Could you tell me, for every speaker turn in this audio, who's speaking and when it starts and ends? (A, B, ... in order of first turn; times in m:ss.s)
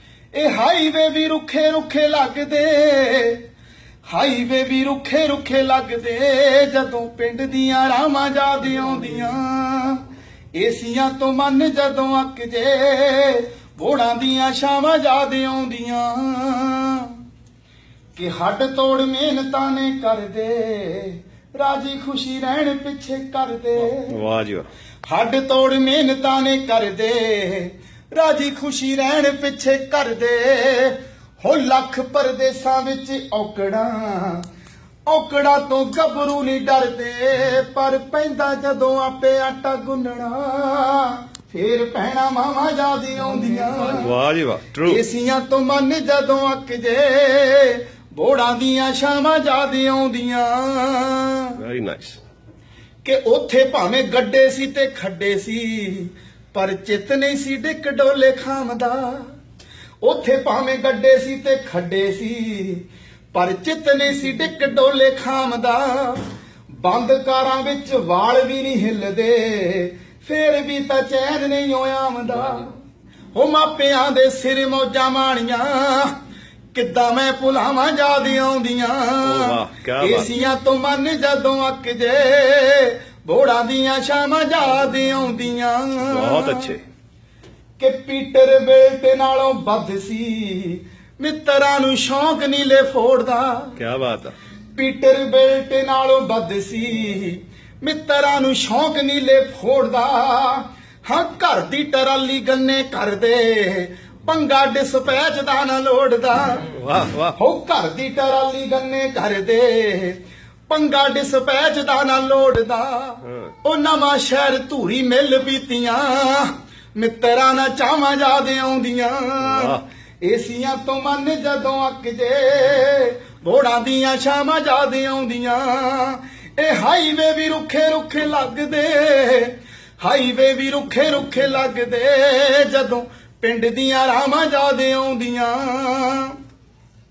0:00.3-0:03.4 A
0:04.1-0:10.0 A
0:10.6-0:17.2 A
0:18.2-0:24.2 A
0:24.0-0:24.7 B
0:25.1-0:34.5 A
0:35.1-0:44.1 A
0:43.8-0:45.0 B
0:44.8-0:51.6 A
0:51.6-0:52.2 B
0:53.0-0:59.3 A
1:00.0-1:06.3 A
1:06.8-1:12.8 A
1:13.3-1:16.2 A
1:16.7-1:26.7 A
1:19.2-1:20.3 B
1:26.1-1:26.8 B
1:27.8-1:33.8 A
1:33.8-1:34.3 B
1:34.8-1:46.7 A
1:46.7-1:47.4 B
1:47.4-2:16.4 A
1:53.2-1:53.5 B
1:59.4-1:59.8 B